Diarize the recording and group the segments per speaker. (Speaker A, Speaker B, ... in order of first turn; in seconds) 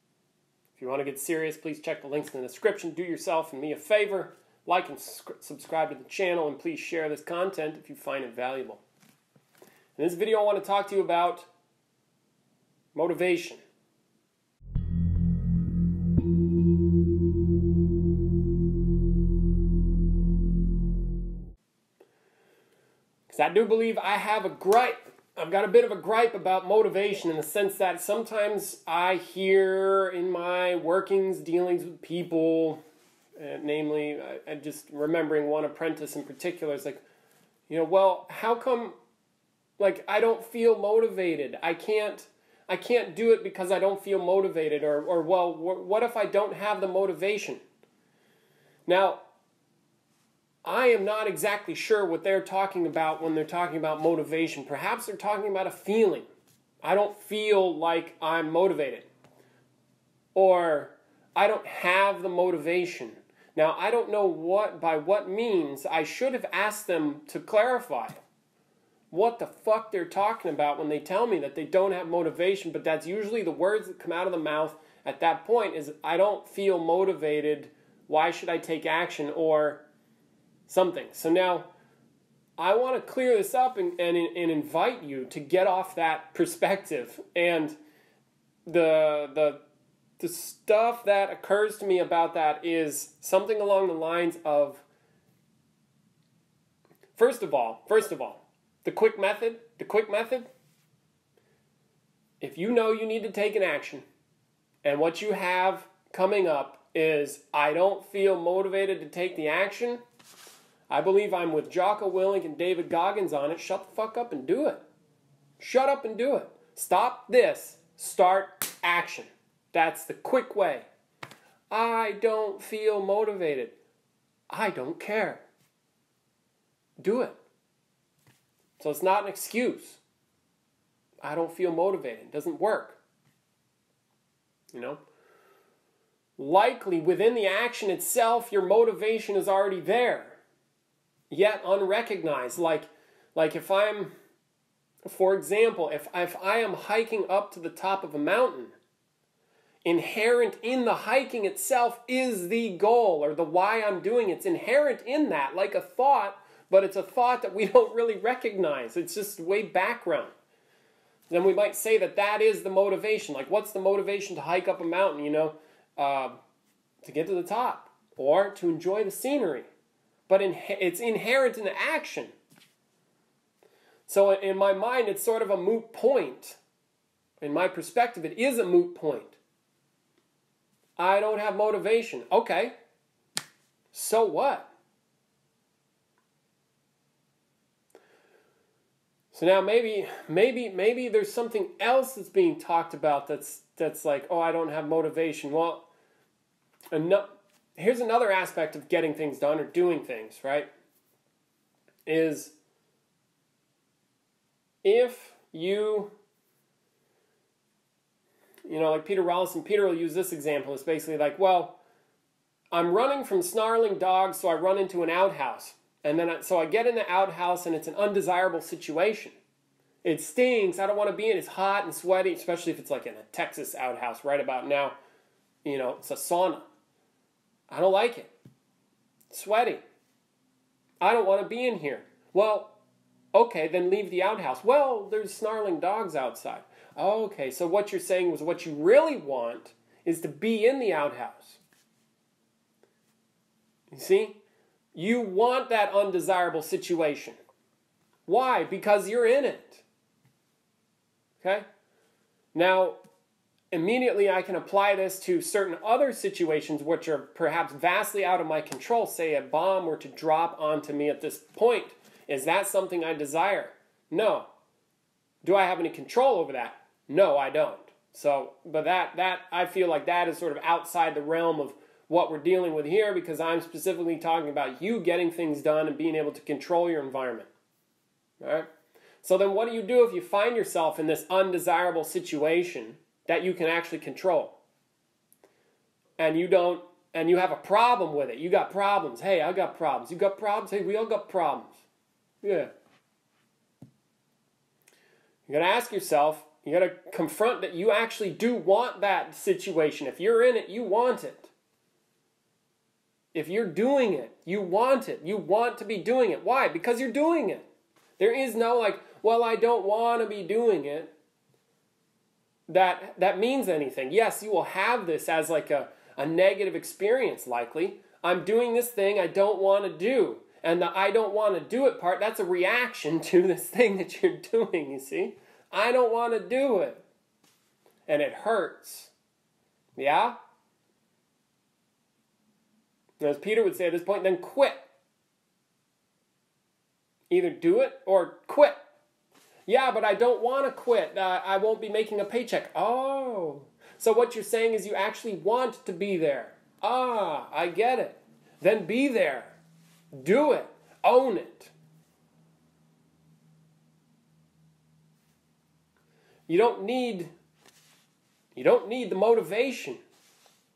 Speaker A: 0.7-8.8, 9.9-11.5, 12.9-13.6, 23.3-32.8, 33.4-37.0, 37.7-39.0, 39.8-47.6, 48.9-49.2, 50.6-56.3, 56.8-59.1, 60.3-68.2, 69.1-79.8, 80.7-81.7, 82.6-87.8, 88.7-89.6, 90.2-94.8, 97.1-100.5, 102.4-104.0, 104.8-110.0, 110.9-114.8, 115.6-120.9, 121.7-123.8, 124.5-125.5, 127.0-127.4, 128.8-130.0, 131.2-133.0, 134.7-135.0, 136.4-140.4, 141.3-144.1, 145.0-148.7, 149.8-160.3, 161.3-166.4, 167.0-169.7, 170.3-172.3, 174.1-176.6, 177.4-179.4, 181.0-182.7, 183.9-184.7, 189.3-195.9, 196.9-200.7, 202.1-202.5, 204.8-206.1, 208.7-211.8, 212.7-219.4, 220.0-224.9, 225.6-226.7, 227.7-228.3, 229.3-229.8, 231.0-232.8, 233.3-241.6, 243.9-244.4, 244.9-247.4, 248.3-249.8, 251.4-251.7, 252.5-253.0, 253.7-264.5, 265.4-277.5, 278.4-278.7, 279.2-284.6, 286.2-291.8, 292.4-292.7, 295.5-301.5, 303.3-307.6, 308.2-311.1, 312.7-327.0, 328.1-329.1, 329.9-330.4, 333.2-334.8, 337.3-338.8, 339.7-349.6, 350.1-351.7, 356.5-357.3, 358.5-360.0